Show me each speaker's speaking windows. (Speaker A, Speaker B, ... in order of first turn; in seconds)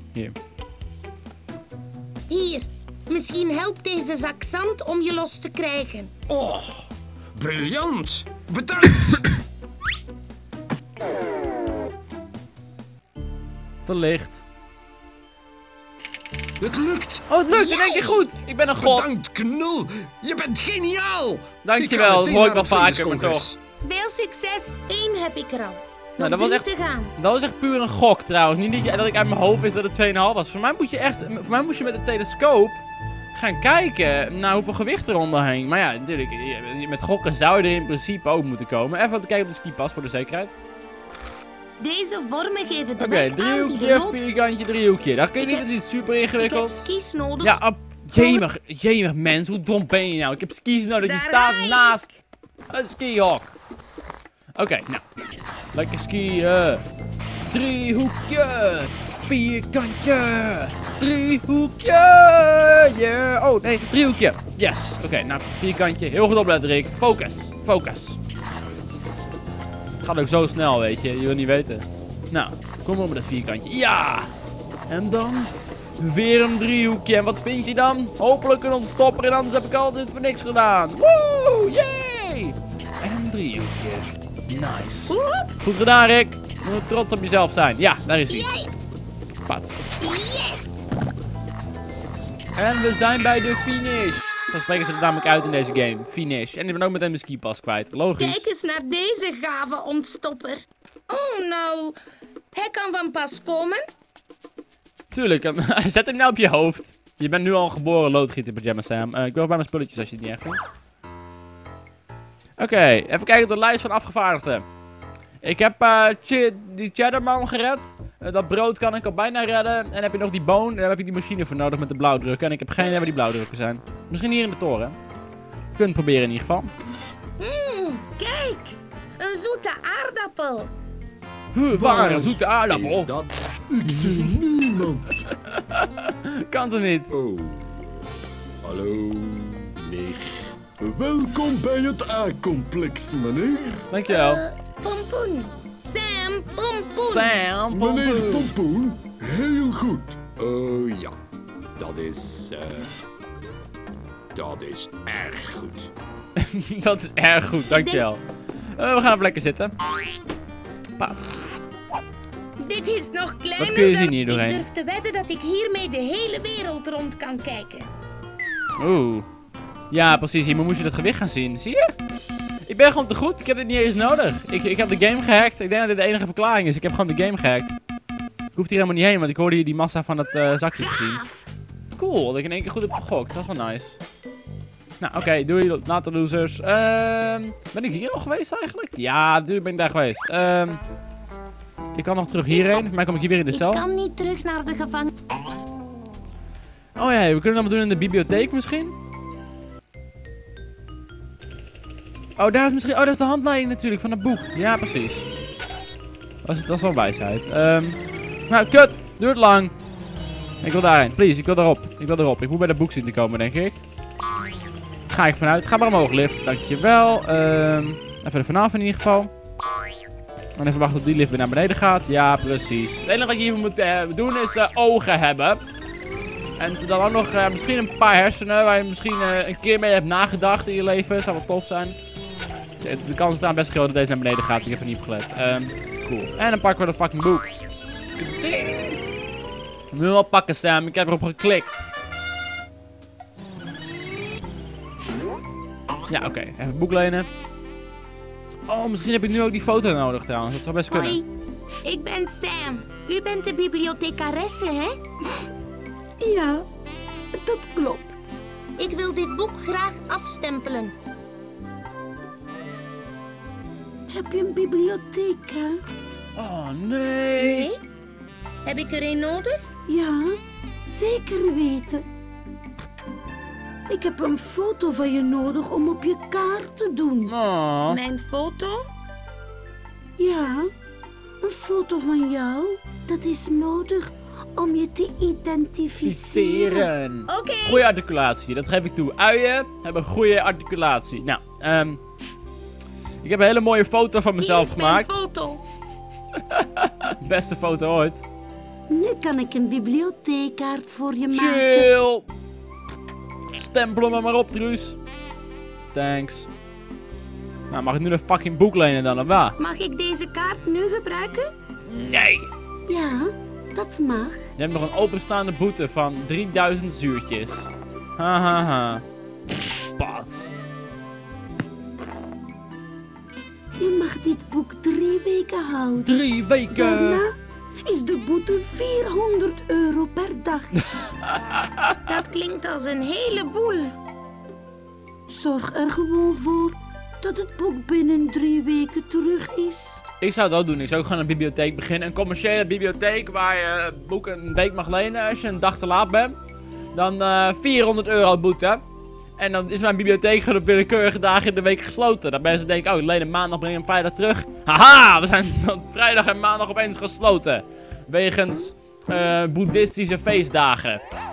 Speaker A: 2.3-6.1, 17.5-18.2, 23.8-27.1, 41.8-44.2, 45.4-45.7, 46.4-47.6, 48.1-48.5, 51.0-52.0, 85.1-85.6, 88.3-88.7, 90.0-90.7, 98.2-102.0, 102.5-103.9, 127.4-130.7, 144.1-147.4, 157.7-158.0, 162.6-167.9, 180.9-181.1, 193.5-195.1, 250.9-251.3, 251.8-255.0, 258.8-260.9, 267.4-267.8, 268.7-269.6, 277.9-278.9, 287.3-287.8, 294.4-295.6, 309.6-311.5, 332.1-333.9
Speaker B: 6.3-9.4, 16.6-17.3, 18.8-23.6, 139.8-140.5, 150.4-151.0, 151.8-152.9, 154.3-155.9
Speaker C: 13.9-14.4, 17.3-19.2, 21.6-23.5, 26.2-32.8, 33.3-40.5, 43.0-46.9, 47.4-52.2, 52.7-53.5, 54.5-55.0, 55.7-56.9, 57.5-68.2, 70.0-74.3, 74.9-88.5, 89.5-89.9, 92.6-98.5, 105.1-110.6, 112.6-114.6, 115.4-125.0, 125.7-126.7, 131.5-133.1, 133.9-134.3, 135.5-137.1, 143.9-144.4, 147.0-148.5, 156.4-158.2, 158.7-159.7, 161.0-161.5, 163.6-164.7, 168.8-169.3, 169.9-171.9, 172.7-177.8, 178.5-181.2, 182.0-184.0, 185.0-190.8, 191.9-193.8, 197.0-199.0, 202.4-205.3, 206.4-209.7, 210.6-213.8, 215.1-219.3, 220.6-225.6, 226.6-232.0, 232.8-237.5, 238.2-239.0, 239.9-241.8, 246.1-247.3, 248.7-251.2, 266.4-267.7, 277.3-278.0, 286.0-292.0, 293.2-295.2, 296.5-298.2, 301.3-302.3, 303.6-305.0, 305.9-306.5, 307.7-309.6, 311.9-312.5, 314.6-319.0, 320.0-320.5, 326.0-327.2, 340.2-346.4, 346.9-348.8, 349.4-361.0
Speaker D: 131.7-135.3, 137.1-137.7, 138.6-139.8, 140.8-143.8, 147.7-151.1
Speaker E: 256.2-256.7, 257.4-258.3, 264.1-265.8, 269.9-270.4, 270.9-272.1, 273.9-277.3, 280.2-280.7, 281.4-286.9, 298.9-301.9, 312.9-314.4, 323.8-326.2, 326.7-330.7, 335.3-340.0